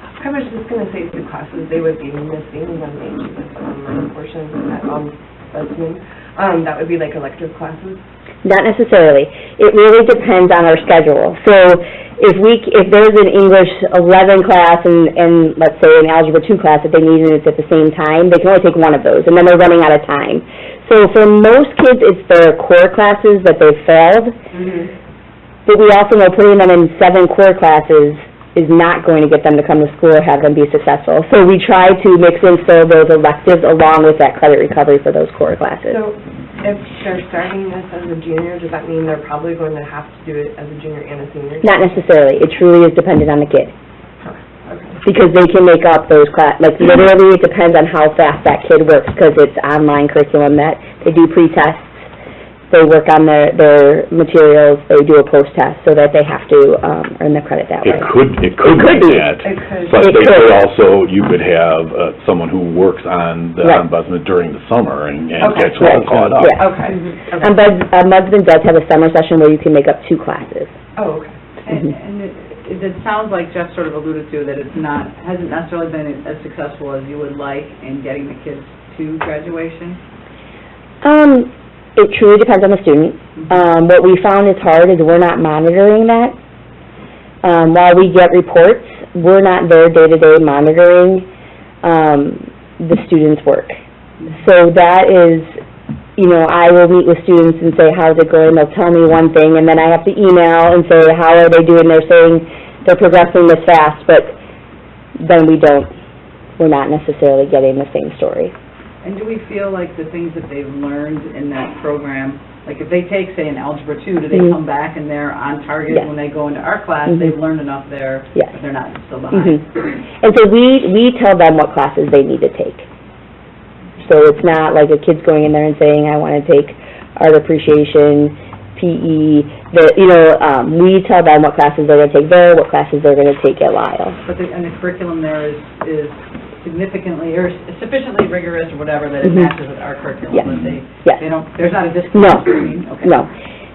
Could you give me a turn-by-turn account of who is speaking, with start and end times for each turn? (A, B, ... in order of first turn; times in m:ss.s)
0:00.2-0:08.0 A
0:08.4-0:24.4 B
0:24.6-0:24.9 A
0:25.7-0:36.0 B
0:35.9-0:42.0 A
0:41.6-0:43.7 B
0:44.2-0:45.0 A
0:45.0-0:52.1 B
0:52.7-0:59.4 B
0:57.8-1:06.6 C
0:59.4-1:00.0 A
1:00.0-1:00.7 B
1:05.4-1:07.5 A
1:05.8-1:06.7 B
1:07.4-1:10.7 B
1:11.0-1:11.3 A
1:11.6-1:20.0 D
1:21.0-1:26.4 B
1:27.4-1:31.3 B
1:31.8-1:35.5 B
1:36.2-1:44.4 B
1:45.2-1:45.9 B
1:46.6-1:48.5 B
1:49.0-1:59.6 D
1:59.3-1:59.6 B
2:00.2-2:02.9 B
2:04.0-2:14.2 B
2:14.2-2:23.3 D
2:19.2-2:19.5 B
2:20.3-2:21.2 B
2:22.1-2:23.3 B